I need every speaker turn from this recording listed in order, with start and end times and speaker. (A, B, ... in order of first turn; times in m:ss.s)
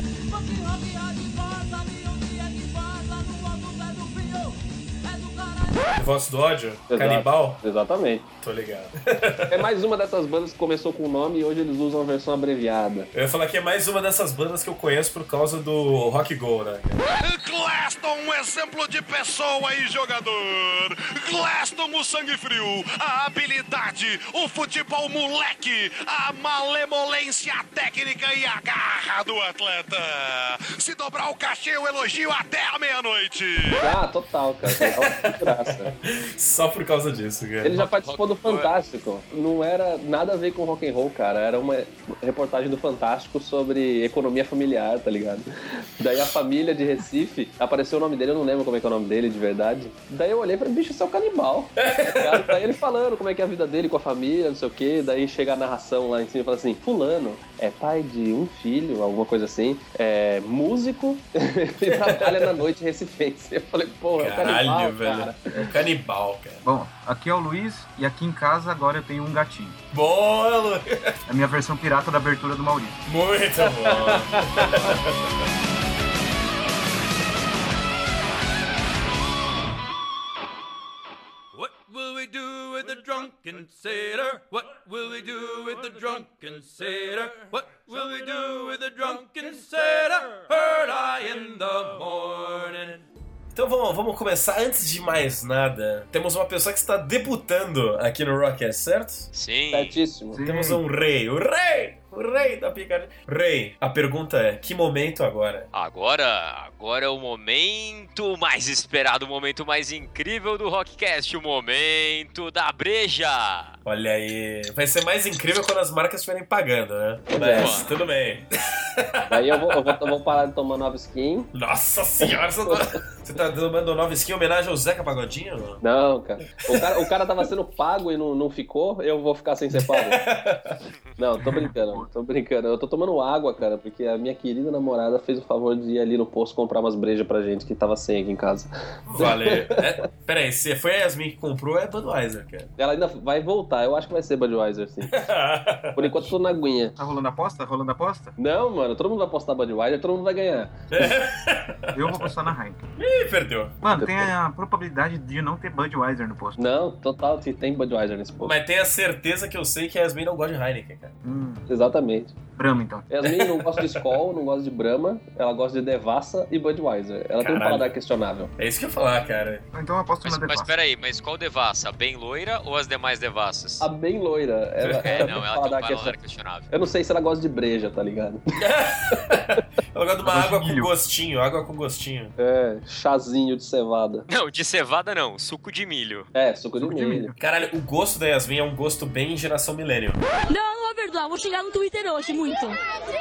0:00.2-0:06.0 A
0:06.0-0:07.6 B
0:06.9-0:08.2 C
0:08.4-0:09.6 B
0:09.5-0:13.1 C
0:13.1-0:17.0 B
0:17.1-0:33.8 D
0:33.8-0:35.9 C
0:34.8-0:37.9 B
0:37.6-1:05.4 C
0:38.0-0:38.7 E
0:51.8-0:52.6 B
1:01.8-1:02.4 B
1:04.2-1:06.6 B
1:06.6-1:09.8 F
1:09.9-1:11.2 B
1:11.3-1:13.0 F
1:13.0-1:15.2 B
1:13.6-1:14.9 C
1:21.5-1:33.0 G
1:33.5-1:39.3 B
1:39.3-1:40.0 E
1:39.7-1:40.4 C
1:40.3-1:40.8 F
1:40.4-1:45.7 B
1:45.7-1:53.8 E
1:53.8-2:00.1 B
1:57.3-1:57.8 C
1:57.6-1:57.9 E
1:59.3-2:01.5 C
2:01.5-2:05.8 B
2:05.8-2:10.2 C
2:06.6-2:07.0 B
2:09.8-2:10.8 B
2:11.2-2:19.8 C
2:11.4-2:12.1 F
2:19.0-2:19.4 F
2:19.2-2:22.7 B
2:22.8-2:25.1 C
2:25.1-2:26.3 B
2:26.0-2:27.0 C
2:27.0-2:28.3 F
2:28.4-2:30.9 C
2:30.9-2:33.8 B
2:31.9-2:32.8 F
2:33.8-2:36.6 F
2:36.6-2:38.5 C
2:38.4-2:41.2 B
2:41.2-2:41.7 F
2:41.7-2:42.4 C
2:42.6-2:43.1 F
2:43.1-2:48.5 C
2:43.2-2:43.9 B
2:47.4-2:47.9 B
2:48.6-2:49.6 B
2:49.7-2:50.7 F
2:50.2-2:53.8 E
2:53.8-2:56.2 C
2:54.8-2:55.3 B
2:55.0-2:56.7 E
2:56.7-2:58.4 C
2:58.6-3:02.3 B
3:00.2-3:00.9 F
3:02.4-3:04.3 C
3:04.3-3:06.3 E
3:06.3-3:07.3 C
3:06.8-3:07.4 F
3:07.4-3:10.2 B
3:10.5-3:12.8 A